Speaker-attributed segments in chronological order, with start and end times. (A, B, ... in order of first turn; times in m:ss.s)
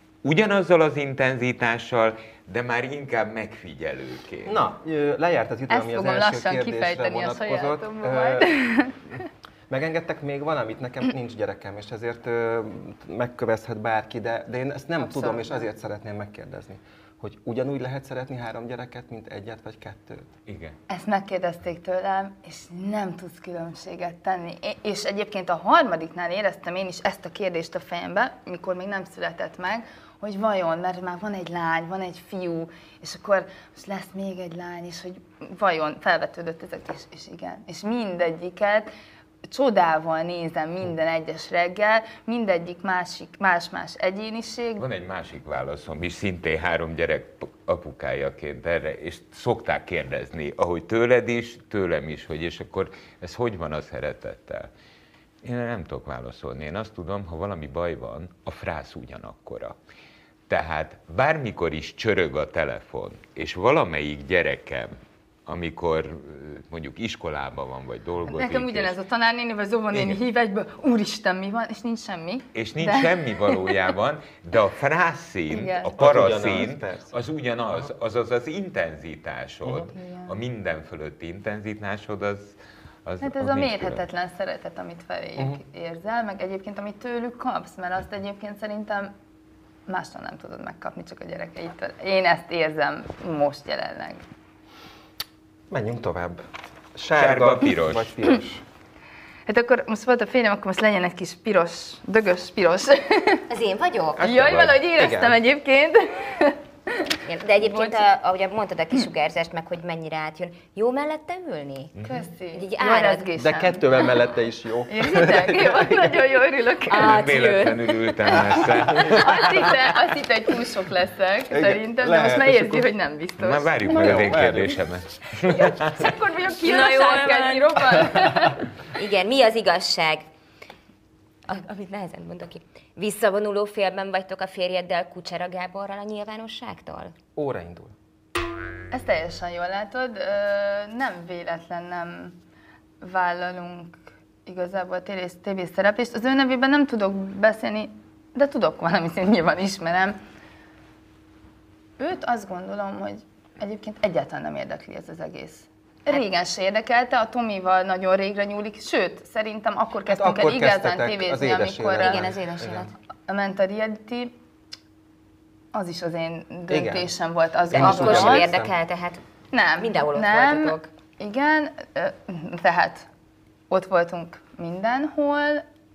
0:00.2-0:04.6 A
0:04.5-0:08.5 B
0:05.7-0:09.0 C
0:09.7-0:20.2 B
0:15.0-0:15.6 C
0:20.5-0:20.8 A
0:20.9-0:38.9 C
0:39.5-0:44.8 C
0:44.8-0:54.7 A
0:55.4-0:59.8 A
1:00.5-1:09.0 A
1:08.3-1:13.6 C
1:12.6-1:24.0 A
1:15.5-1:16.0 C
1:16.0-1:17.1 B
1:19.9-1:20.3 C
1:23.2-1:29.1 C
1:29.9-1:34.2 C
1:35.7-1:38.6 B
1:37.2-1:38.2 A
1:39.5-1:43.5 C
1:43.5-1:44.2 D
1:44.2-1:48.0 C
1:44.2-1:44.6 A
1:44.4-1:45.4 B
1:47.2-1:52.0 D
1:52.0-1:54.1 C
1:52.5-1:53.3 D
1:53.4-1:56.1 B
1:54.9-1:57.3 C
1:56.9-1:59.0 D
1:57.0-1:59.8 A
1:59.0-2:03.9 C
2:01.5-2:02.9 B
2:03.4-2:06.1 A
2:03.9-2:04.8 B
2:05.5-2:08.6 C
2:06.6-2:08.4 D
2:09.0-2:10.3 D
2:11.5-2:17.2 D
2:17.4-2:17.9 B
2:18.9-2:22.4 C
2:23.0-2:30.2 C
2:32.0-2:42.2 C
2:40.1-2:42.9 B
2:42.0-2:42.9 D
2:43.3-2:44.4 C
2:45.7-2:48.5 C
2:46.7-2:47.1 B
2:47.7-2:48.7 B
2:47.7-2:49.2 D
2:49.5-2:53.1 C
2:49.8-2:50.9 D
2:53.7-2:55.6 C